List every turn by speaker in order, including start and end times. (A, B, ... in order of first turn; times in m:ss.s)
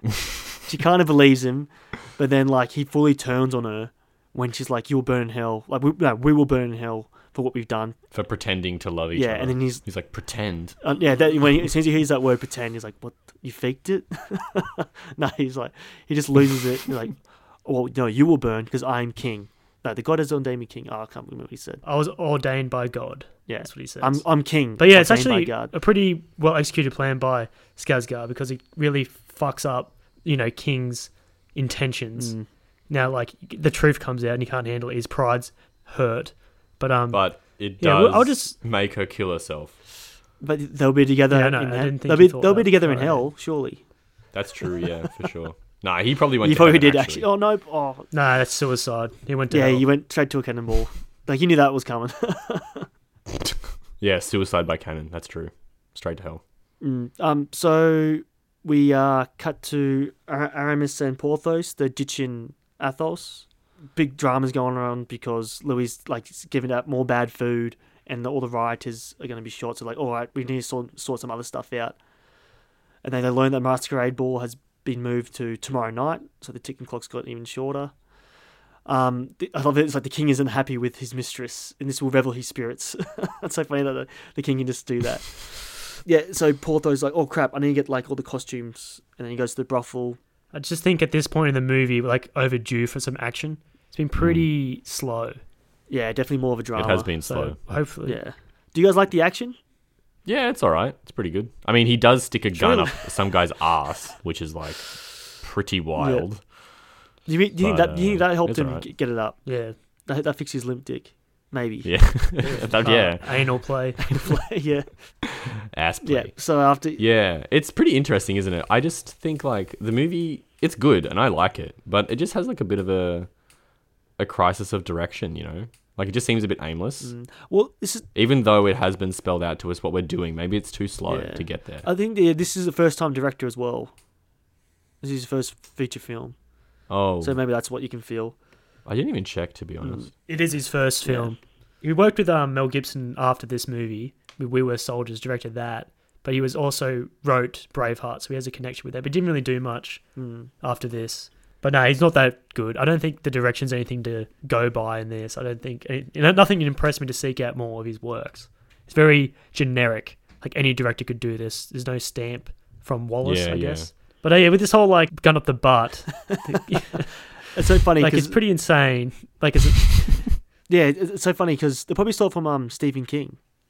0:00.6-0:08.0 A
0:08.1-0:10.8 B
0:09.1-0:09.8 A
0:10.8-0:21.8 A
0:21.8-0:24.2 C
0:23.5-0:25.7 A
0:24.8-0:32.4 C
0:32.2-0:32.5 A
0:32.9-0:37.2 C
0:37.1-0:39.8 B
0:37.8-0:38.6 C
0:40.4-0:43.8 A
0:41.3-0:43.3 C
0:44.3-0:47.3 B
0:46.4-0:48.1 A
0:48.1-0:49.9 C
0:49.5-0:52.9 A
0:54.0-0:56.4 B
0:56.8-1:12.0 A
1:13.0-1:17.9 A
1:18.9-1:30.2 A
1:30.5-1:35.4 C
1:34.2-1:34.5 B
1:35.9-1:37.1 A
1:36.8-1:37.8 B
1:37.3-1:38.2 C
1:38.1-1:39.6 A
1:40.2-1:46.4 B
1:42.6-1:43.1 A
1:46.0-1:46.3 A
1:47.3-1:49.5 A
1:47.6-1:48.8 B
1:49.5-1:49.8 C
1:50.1-1:53.1 A
1:51.8-1:53.6 B
1:52.5-1:54.0 C
1:54.0-1:55.3 A
1:55.4-1:56.4 B
1:56.0-1:57.0 A
1:57.0-2:03.3 B
2:04.2-2:07.1 B
2:07.0-2:08.1 A
2:08.2-2:11.9 B
2:11.1-2:13.9 A
2:15.0-2:16.4 A
2:16.9-2:17.4 B
2:17.2-2:18.4 A
2:18.9-2:20.1 B
2:19.8-2:20.1 A
2:20.3-2:30.0 C
2:21.0-2:21.3 A
2:30.2-2:30.5 A
2:30.6-2:47.3 C
2:43.2-2:43.9 B
2:47.5-2:48.4 A
2:48.0-2:50.3 C
2:50.7-2:53.4 A